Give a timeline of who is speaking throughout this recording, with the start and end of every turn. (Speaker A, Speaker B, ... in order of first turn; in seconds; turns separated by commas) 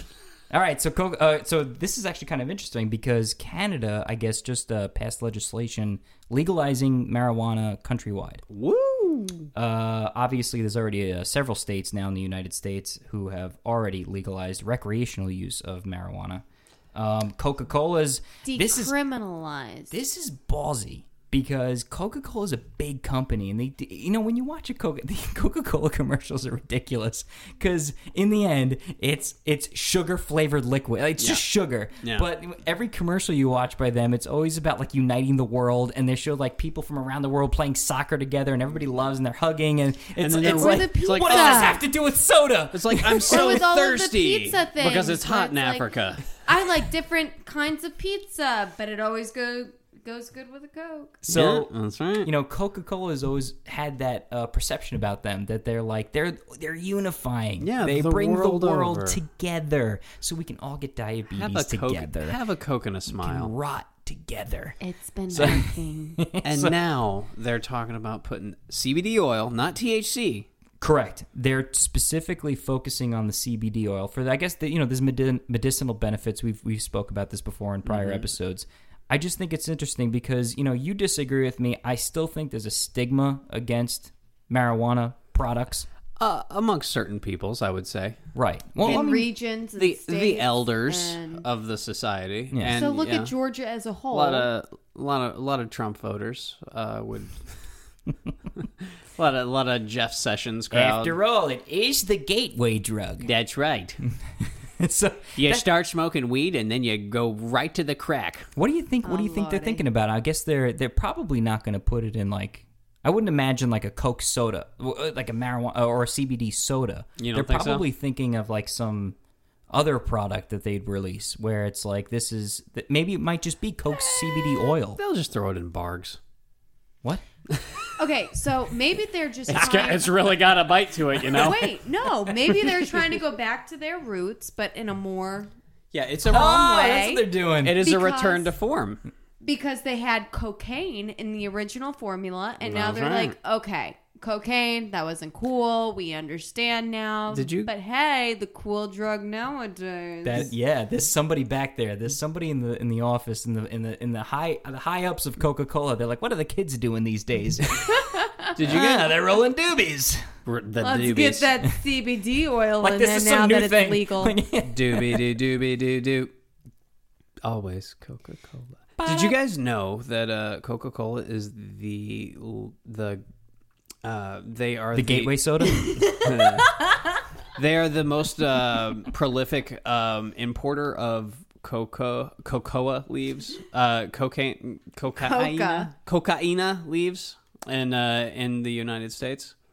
Speaker A: 0.5-8.4, Speaker B: 8.5-9.5, Speaker A: 9.6-18.9, Speaker C: 18.4-19.9, Speaker A: 19.9-43.7, Speaker B: 40.2-41.8, Speaker C: 40.4-41.8, Speaker B: 42.7-46.4, Speaker C: 43.3-51.2, Speaker A: 51.2-62.4, Speaker B: 51.3-52.3, Speaker B: 57.6-59.2, Speaker B: 61.3-63.5, Speaker A: 63.1-64.8, Speaker C: 64.8-66.2, Speaker A: 65.3-66.8, Speaker B: 66.4-70.5, Speaker A: 70.8-85.9, Speaker B: 77.8-78.3, Speaker B: 86.2-88.2, Speaker A: 88.3-89.3, Speaker B: 88.8-89.1, Speaker C: 88.8-91.4, Speaker B: 89.8-93.3, Speaker A: 92.5-92.9, Speaker C: 92.7-94.5, Speaker B: 94.1-97.6, Speaker B: 98.6-101.2, Speaker A: 100.7-103.3, Speaker B: 103.2-104.0, Speaker A: 104.4-105.7, Speaker B: 105.4-108.5, Speaker A: 108.6-119.2, Speaker C: 109.0-109.8, Speaker B: 117.2-117.8, Speaker A: 119.7-125.0, Speaker B: 123.9-126.2, Speaker B: 127.5-127.9, Speaker C: 128.0-130.3, Speaker B: 129.5-131.8, Speaker C: 131.2-135.5, Speaker B: 132.5-133.0, Speaker B: 135.9-136.6, Speaker C: 136.2-138.5, Speaker A: 136.3-137.8, Speaker B: 137.6-139.0, Speaker C: 139.4-150.5, Speaker B: 142.6-143.3, Speaker B: 147.3-147.7, Speaker A: 150.2-158.0, Speaker C: 157.9-158.6, Speaker B: 158.6-159.1, Speaker A: 158.6-160.2, Speaker B: 160.4-161.5, Speaker C: 160.8-164.4, Speaker A: 162.8-165.3, Speaker B: 164.6-166.3, Speaker B: 167.4-173.2, Speaker A: 169.0-169.4, Speaker B: 174.0-175.4, Speaker A: 175.0-176.1, Speaker C: 175.7-176.9, Speaker B: 176.1-176.7, Speaker B: 177.6-189.6, Speaker C: 185.2-185.9